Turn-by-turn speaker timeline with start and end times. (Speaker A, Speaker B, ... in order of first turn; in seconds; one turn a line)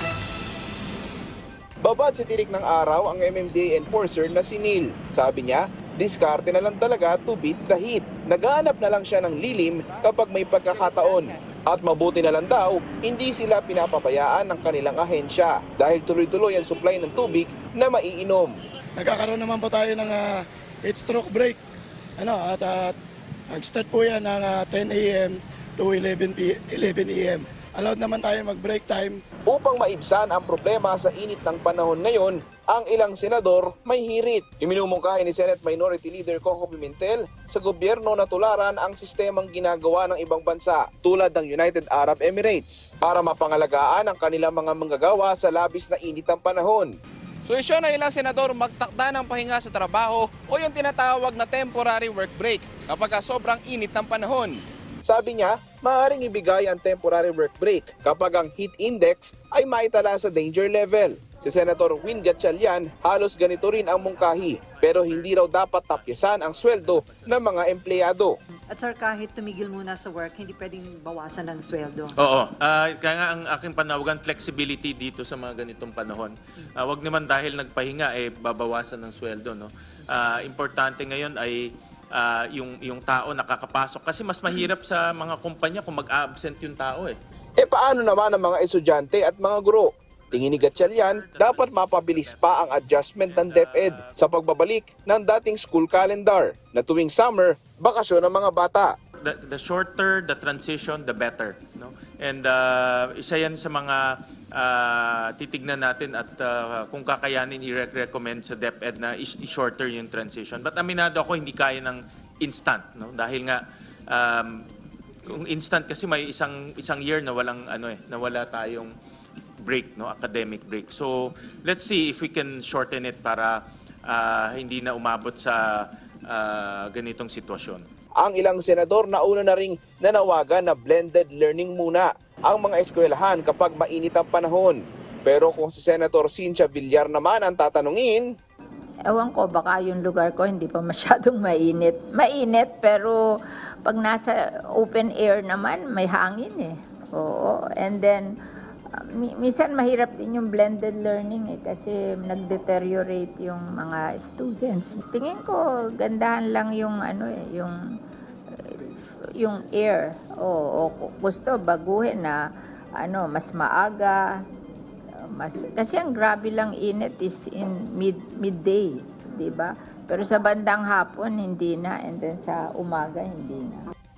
Speaker A: 1.8-18.5
Speaker B: 19.0-20.3
Speaker B: 20.8-21.6
Speaker B: 22.2-22.9
Speaker B: 23.5-29.2
Speaker A: 29.5-46.9
Speaker A: 47.5-68.3
Speaker C: 64.0-67.6
Speaker D: 68.7-72.2
Speaker C: 72.2-87.2
Speaker A: 87.6-98.9
Speaker C: 90.3-94.1
Speaker C: 99.2-104.0
Speaker C: 104.5-114.6
Speaker C: 115.3-118.9
Speaker C: 119.6-127.8
Speaker A: 128.2-138.2
Speaker E: 139.1-143.2
Speaker E: 143.8-148.2
Speaker E: 149.2-157.8
Speaker E: 158.8-162.4
Speaker E: 163.0-164.2
Speaker E: 165.3-173.9